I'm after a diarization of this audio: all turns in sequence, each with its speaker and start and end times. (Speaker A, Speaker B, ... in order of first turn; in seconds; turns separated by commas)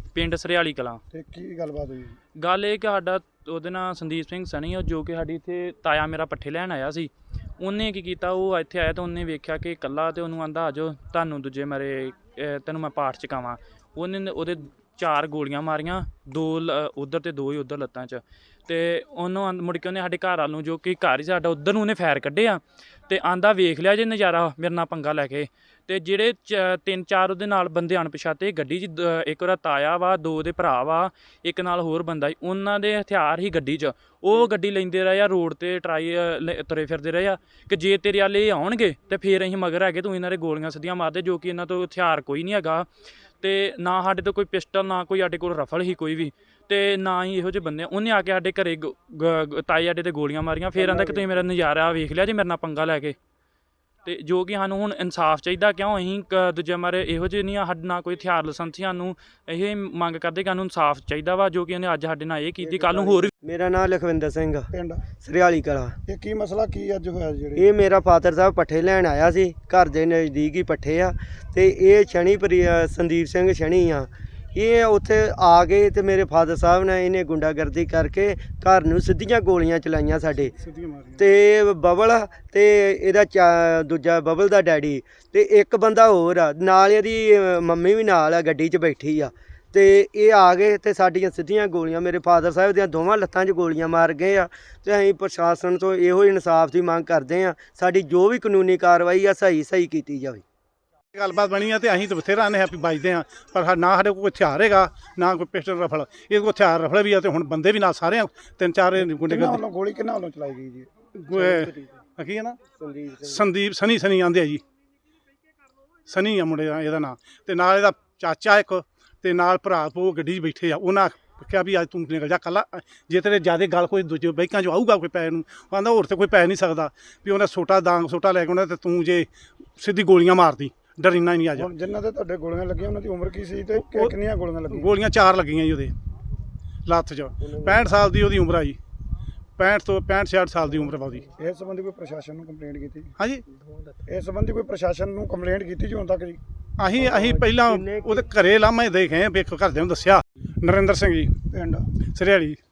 Speaker A: 0.1-1.0, Speaker B: 1.1-2.2, Speaker A: 2.4-42.9, Speaker A: 43.4-53.2, Speaker B: 50.8-51.5, Speaker A: 54.0-63.3, Speaker C: 62.6-66.0, Speaker B: 64.7-65.1, Speaker B: 66.1-67.7, Speaker C: 67.6-80.5, Speaker D: 80.4-81.3, Speaker C: 81.2-100.4, Speaker D: 101.1-109.6, Speaker B: 109.0-110.9, Speaker D: 111.2-112.6, Speaker C: 111.4-111.7, Speaker B: 111.5-112.0, Speaker C: 112.8-113.5, Speaker D: 113.2-114.6, Speaker D: 116.1-131.7, Speaker B: 131.5-134.9, Speaker D: 133.8-134.1, Speaker D: 134.7-135.9, Speaker D: 136.9-138.8, Speaker C: 137.5-137.9, Speaker D: 139.6-141.3, Speaker B: 141.3-143.2, Speaker B: 144.1-146.4, Speaker D: 146.8-151.4, Speaker C: 147.0-148.2, Speaker B: 151.5-151.9, Speaker D: 152.0-152.6